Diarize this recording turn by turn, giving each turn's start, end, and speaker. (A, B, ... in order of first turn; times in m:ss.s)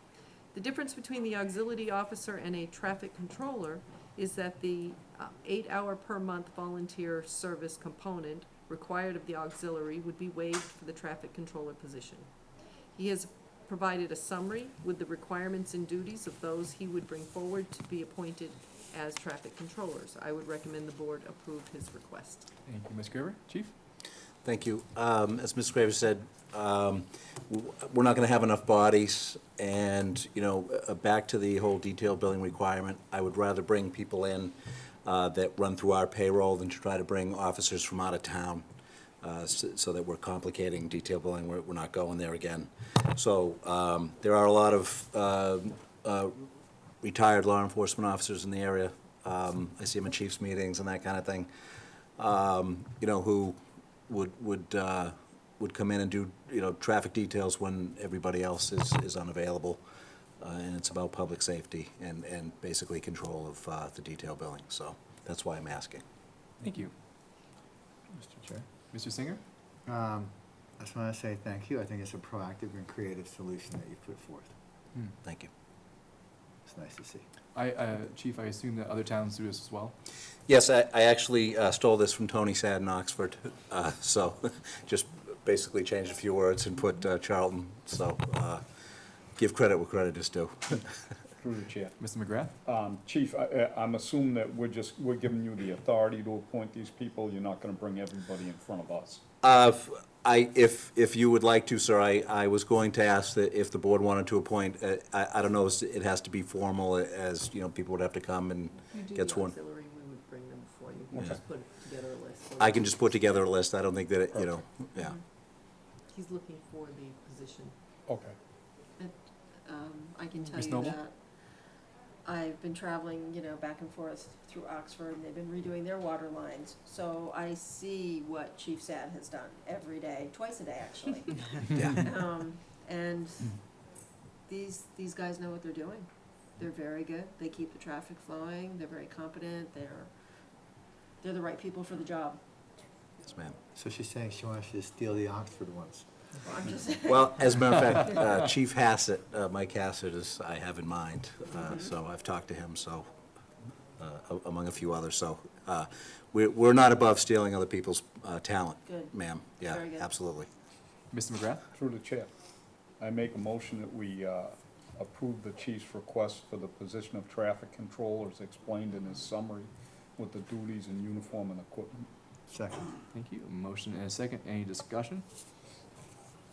0:00.5-0:12.3 A
0:12.9-0:22.5 A
0:22.7-0:23.7 B
0:24.4-0:34.5 C
0:35.0-0:38.6 C
0:39.2-0:46.4 C
0:47.0-0:51.5 C
0:52.2-0:53.6 C
0:54.1-0:59.8 C
1:00.4-1:06.0 C
1:06.6-1:06.9 B
1:08.1-1:08.6 D
1:08.9-1:09.4 B
1:09.8-1:14.5 D
1:15.2-1:15.5 C
1:16.7-1:17.2 D
1:17.5-1:19.9 B
1:20.5-1:28.6 C
1:29.4-1:31.0 C
1:31.4-1:32.0 E
1:32.0-1:32.5 B
1:32.6-1:39.2 E
1:39.4-1:49.5 C
1:48.9-1:53.2 A
1:51.1-1:51.4 E
1:52.6-1:55.1 C
1:56.1-1:57.7 A
1:58.1-1:58.4 E
1:59.0-2:13.8 F
2:00.5-2:01.0 B
2:11.7-2:12.0 C
2:14.5-2:22.4 F
2:23.2-2:23.6 C
2:23.7-2:26.1 D
2:26.4-2:28.1 F
2:27.1-2:33.1 C
2:31.6-2:31.9 F
2:34.0-2:40.5 C
2:38.9-2:39.1 F
2:39.7-2:40.1 F
2:41.1-2:41.6 B
2:41.8-2:42.3 E
2:43.0-2:52.1 E
2:52.5-2:52.9 D
2:53.1-2:55.2 B